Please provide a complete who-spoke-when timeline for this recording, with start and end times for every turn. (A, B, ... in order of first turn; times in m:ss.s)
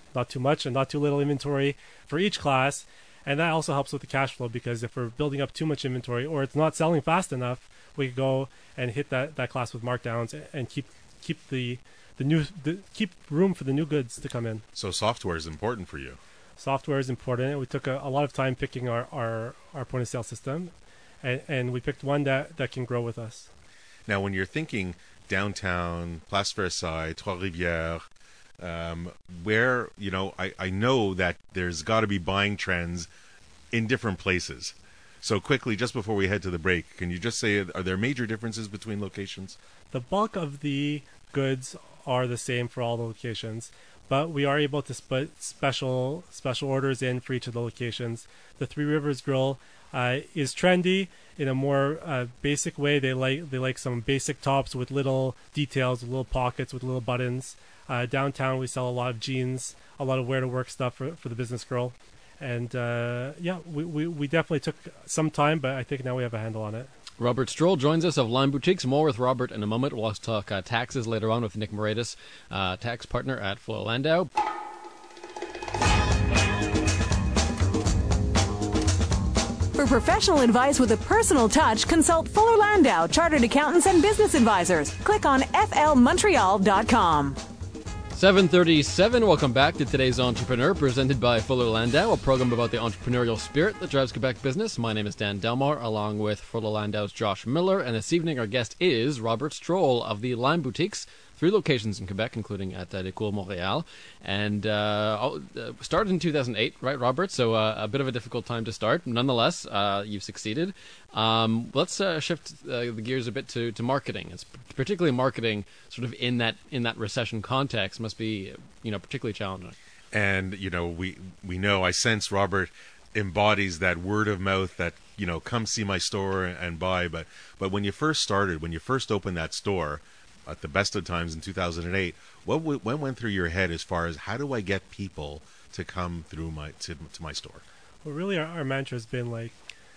0:00.1-0:14.6 A
0:14.8-0:16.2 B
0:16.6-0:20.7 A
0:21.2-0:23.5 A
0:24.1-0:28.0 B
0:28.6-0:33.1 B
0:33.7-0:39.6 B
0:39.9-1:06.9 A
1:07.2-1:14.3 C
1:19.8-1:27.4 D
1:28.1-1:59.8 C
2:00.1-2:17.6 B
2:18.0-2:19.6 A